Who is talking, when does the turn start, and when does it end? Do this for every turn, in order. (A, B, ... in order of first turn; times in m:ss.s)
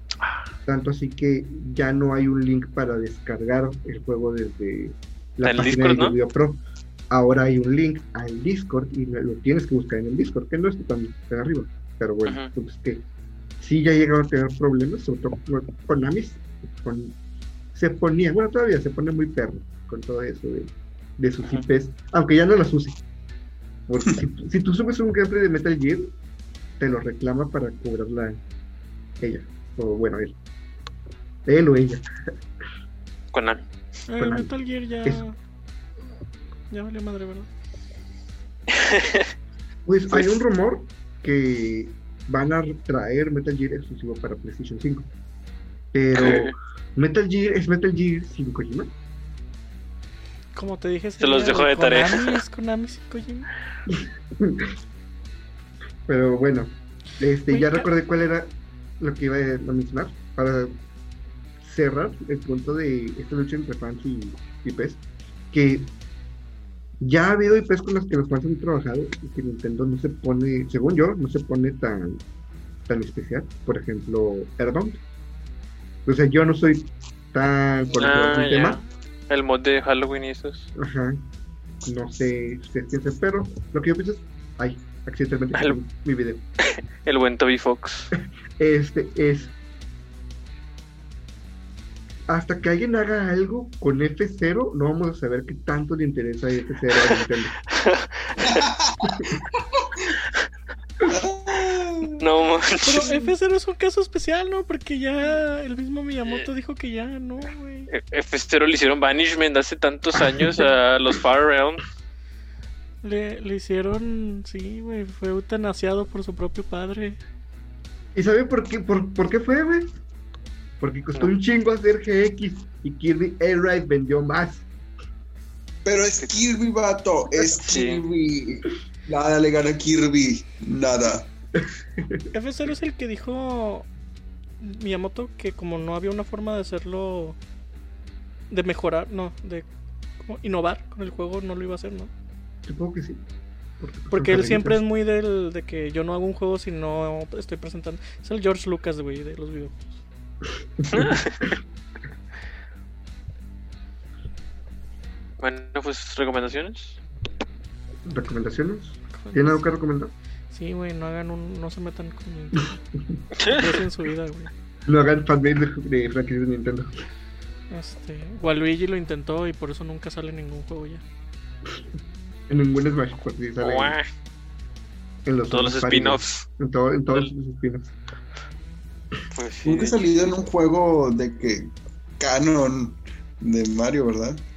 0:00.2-0:00.5 A
0:00.6-0:13.0 B
0:05.4-0:06.2 A
0:12.2-0:12.5 A
0:13.6-0:17.2 B
0:17.7-0:23.0 B
0:23.9-0:26.1 B
0:26.8-0:28.4 B
0:29.2-0:30.3 B
0:31.4-0:32.0 B
0:33.3-0:33.6 A
0:34.1-0:35.4 C
0:34.2-0:34.5 B
0:36.7-0:37.5 C
0:38.7-0:39.3 A
0:39.8-0:45.1 B
0:45.9-0:48.9 B
0:46.1-0:46.5 A
0:50.5-0:53.5 C
0:51.2-0:52.4 A
0:53.9-0:54.7 B
0:56.1-1:00.7 B
0:57.5-0:57.9 C
1:01.6-1:05.0 B
1:05.5-1:05.9 B
1:07.0-1:12.2 B
1:12.9-1:15.0 B
1:16.0-1:18.8 B
1:18.0-1:20.7 A
1:20.8-1:21.2 B
1:21.8-1:26.4 B
1:26.6-1:28.1 A
1:28.6-1:29.5 B
1:32.3-1:37.6 B
1:36.9-1:38.7 A
1:38.4-1:40.1 D
1:41.0-1:42.2 D
1:42.2-1:43.3 A
1:42.8-1:47.9 C
1:47.9-1:51.8 A
1:53.0-1:57.2 C
1:58.1-1:59.9 B
2:00.8-2:04.6 B
2:05.8-2:11.3 D
2:07.6-2:08.0 A
2:12.0-2:12.3 B
2:12.3-2:13.9 C
2:14.6-2:17.4 C
2:18.5-2:19.7 C
2:20.2-2:22.1 C
2:22.6-2:23.2 B
2:23.8-2:24.8 B
2:24.1-2:29.8 C
2:30.8-2:31.2 B
2:30.9-2:31.6 A
2:35.4-2:37.0 A
2:38.0-2:40.1 B
2:39.1-2:39.6 C
2:40.5-2:42.8 C
2:42.6-2:43.2 B
2:43.4-2:44.5 C
2:44.8-2:47.0 B
2:47.7-2:51.0 C
2:52.5-2:54.0 B
2:53.6-2:54.1 A
2:55.2-2:57.9 B
2:55.5-2:56.4 A
2:59.3-3:00.4 A
2:59.6-3:04.4 D